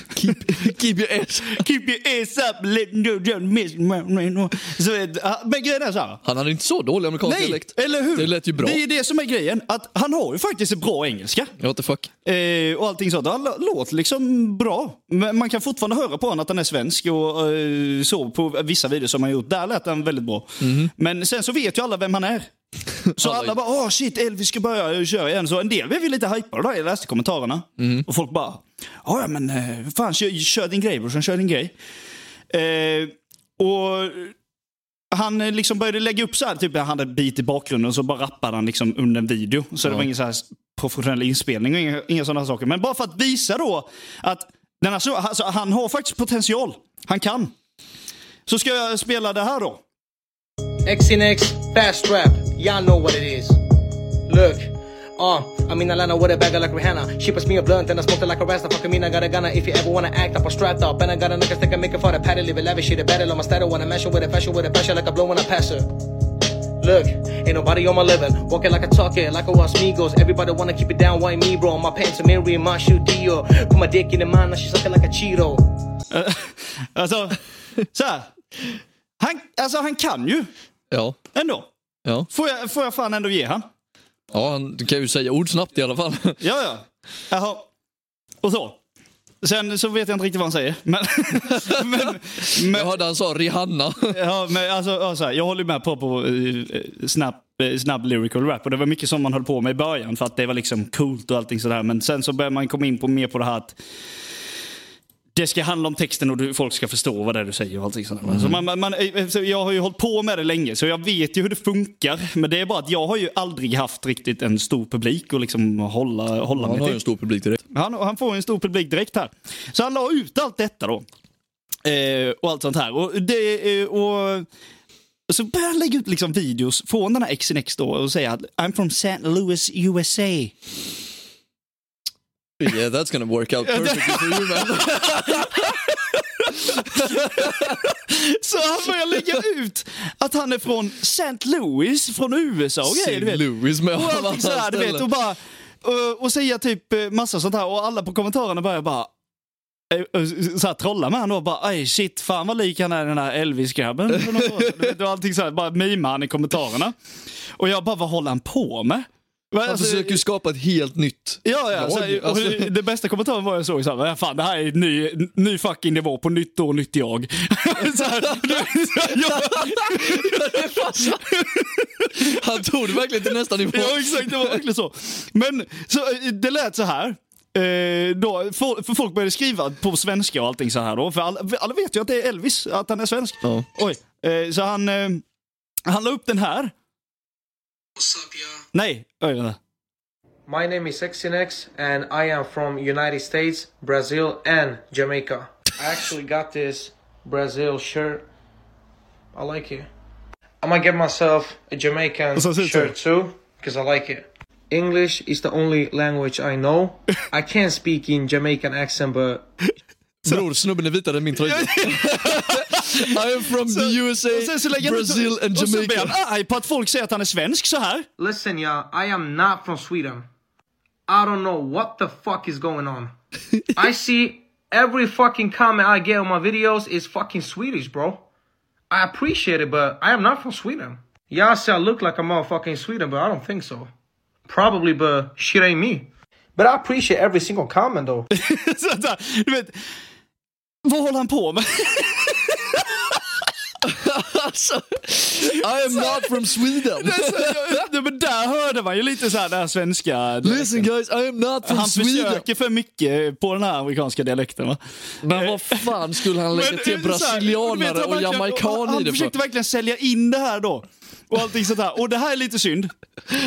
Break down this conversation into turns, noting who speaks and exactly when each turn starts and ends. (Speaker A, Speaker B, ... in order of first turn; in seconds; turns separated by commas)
Speaker A: 0.1-1.6, Speaker B: 1.5-6.2, Speaker A: 6.2-8.8, Speaker B: 7.2-11.5, Speaker A: 11.6-12.1, Speaker B: 12.2-22.5, Speaker A: 20.6-20.9, Speaker A: 23.1-23.5, Speaker B: 23.1-31.7, Speaker A: 27.8-28.1, Speaker B: 32.5-34.4, Speaker B: 35.1-47.5, Speaker B: 48.5-49.8, Speaker C: 50.9-53.6, Speaker C: 54.3-65.9, Speaker C: 66.8-75.7, Speaker B: 76.1-77.4, Speaker B: 77.9-78.3, Speaker B: 79.2-80.5, Speaker A: 80.9-81.2, Speaker B: 81.3-81.7, Speaker B: 82.3-83.7, Speaker A: 84.3-86.4, Speaker B: 86.4-87.7, Speaker B: 88.4-88.8, Speaker B: 89.4-93.0, Speaker A: 91.5-94.2, Speaker B: 94.1-103.8, Speaker B: 105.3-117.0, Speaker A: 108.3-108.6, Speaker A: 116.5-117.6, Speaker B: 117.7-121.1, Speaker B: 121.8-124.5, Speaker B: 125.3-130.6, Speaker A: 132.6-135.9, Speaker B: 133.7-149.1, Speaker A: 136.5-137.8, Speaker A: 142.8-145.1, Speaker B: 149.9-157.0, Speaker A: 154.1-154.9, Speaker B: 157.6-160.2, Speaker A: 159.7-162.7, Speaker B: 161.4-172.3, Speaker A: 167.9-171.4, Speaker A: 172.1-174.6, Speaker B: 173.2-185.2, Speaker B: 185.9-186.7, Speaker C: 188.0-188.3, Speaker B: 188.7-189.6, Speaker C: 190.5-198.3, Speaker C: 199.3-199.9, Speaker C: 200.6-209.4, Speaker B: 202.3-203.0, Speaker A: 210.2-216.2, Speaker B: 211.4-218.1, Speaker C: 218.2-220.3, Speaker C: 221.1-223.1, Speaker C: 223.7-228.2, Speaker C: 228.9-233.9, Speaker C: 234.5-238.3, Speaker B: 238.3-239.8, Speaker B: 240.8-243.0, Speaker A: 243.8-247.8, Speaker B: 245.6-250.9, Speaker A: 250.4-252.4, Speaker B: 251.6-262.9, Speaker A: 255.2-259.3